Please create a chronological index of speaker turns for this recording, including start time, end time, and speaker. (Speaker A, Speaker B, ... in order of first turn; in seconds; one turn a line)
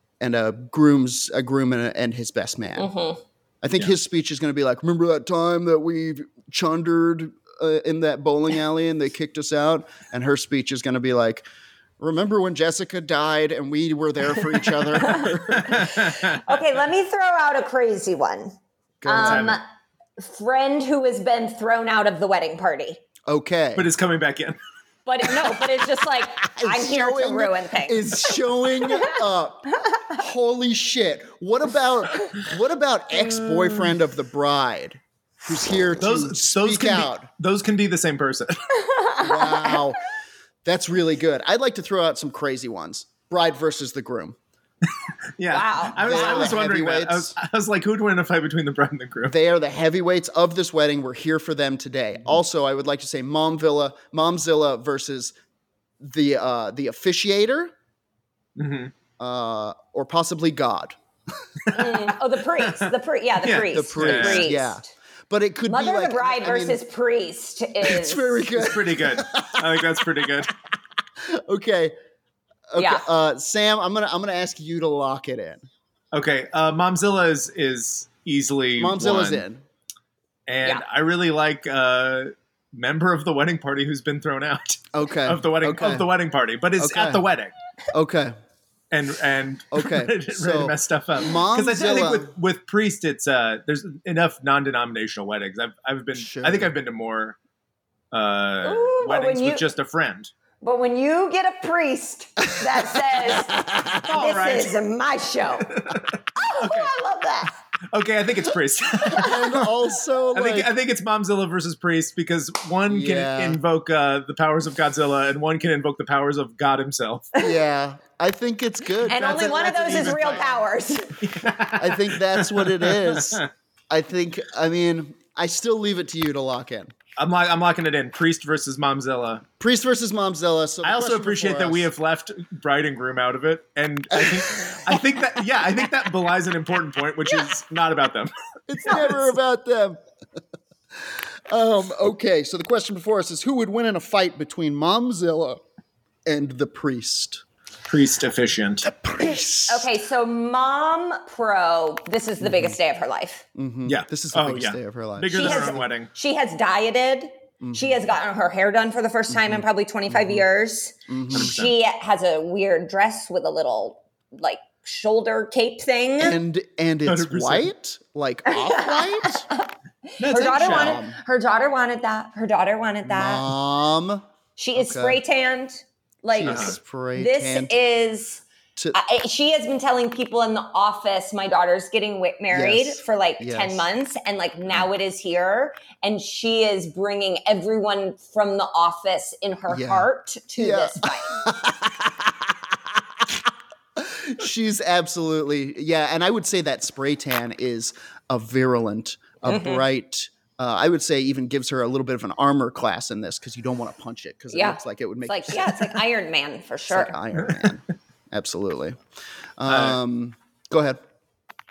Speaker A: 0.2-2.9
Speaker B: 2.8-3.2
Speaker A: 3.6-11.4
Speaker A: 12.0-15.9
Speaker B: 15.0-18.5
Speaker C: 15.6-16.4
Speaker A: 19.0-19.6
Speaker B: 19.1-19.6
Speaker C: 19.1-19.6
Speaker B: 20.2-23.0
Speaker A: 23.3-23.9
Speaker C: 23.8-24.6
Speaker B: 25.1-28.3
Speaker A: 26.4-37.3
Speaker B: 28.8-29.1
Speaker C: 36.0-38.5
Speaker B: 38.9-39.8
Speaker A: 39.2-40.0
Speaker A: 40.6-44.4
Speaker C: 45.4-49.4
Speaker B: 45.5-46.5
Speaker A: 46.0-47.4
Speaker A: 49.3-55.4
Speaker A: 56.0-57.7
Speaker C: 58.6-58.9
Speaker A: 59.2-61.8
Speaker B: 61.7-64.9
Speaker C: 63.4-64.5
Speaker A: 63.7-66.8
Speaker B: 65.7-68.5
Speaker A: 67.8-70.5
Speaker C: 68.6-70.5
Speaker A: 71.2-71.9
Speaker A: 72.7-75.6
Speaker B: 72.8-73.1
Speaker C: 76.1-79.4
Speaker A: 78.8-79.6
Speaker C: 80.5-87.5
Speaker A: 84.9-86.1
Speaker A: 86.8-87.2
Speaker A: 87.9-88.3
Speaker C: 88.9-97.4
Speaker A: 89.7-92.3
Speaker A: 96.1-96.7
Speaker C: 98.1-100.3
Speaker B: 98.6-99.6
Speaker B: 100.6-105.7
Speaker A: 103.3-104.0
Speaker C: 104.0-104.8
Speaker C: 105.6-106.9
Speaker B: 106.4-107.6
Speaker C: 107.9-109.7
Speaker A: 109.1-110.7
Speaker C: 110.3-117.3
Speaker A: 112.9-113.6
Speaker A: 117.4-120.6
Speaker B: 119.1-121.1
Speaker C: 121.2-123.5
Speaker A: 121.8-126.9
Speaker C: 127.2-129.4
Speaker A: 129.6-131.9
Speaker C: 130.8-138.3
Speaker A: 134.1-135.0
Speaker A: 138.7-140.0
Speaker A: 140.9-145.6
Speaker A: 146.3-147.4
Speaker C: 147.9-148.9
Speaker A: 148.8-149.9
Speaker B: 149.7-153.4
Speaker A: 152.4-152.8
Speaker A: 153.6-155.8
Speaker C: 153.9-156.1
Speaker B: 155.3-166.4
Speaker A: 157.6-158.0
Speaker A: 159.3-160.4
Speaker A: 161.1-161.6
Speaker C: 161.3-161.7
Speaker A: 166.2-169.4
Speaker C: 167.1-167.7
Speaker B: 168.5-173.4
Speaker C: 170.2-171.0
Speaker A: 170.6-171.2
Speaker A: 173.1-174.2
Speaker B: 174.6-178.4
Speaker A: 174.8-175.2
Speaker A: 176.3-177.7
Speaker C: 176.4-176.7
Speaker B: 178.9-191.4
Speaker A: 182.5-183.9
Speaker A: 189.7-193.4
Speaker A: 193.9-205.9
Speaker B: 199.4-199.8
Speaker B: 204.5-207.2
Speaker A: 206.9-209.0
Speaker A: 209.6-211.0
Speaker C: 209.7-210.0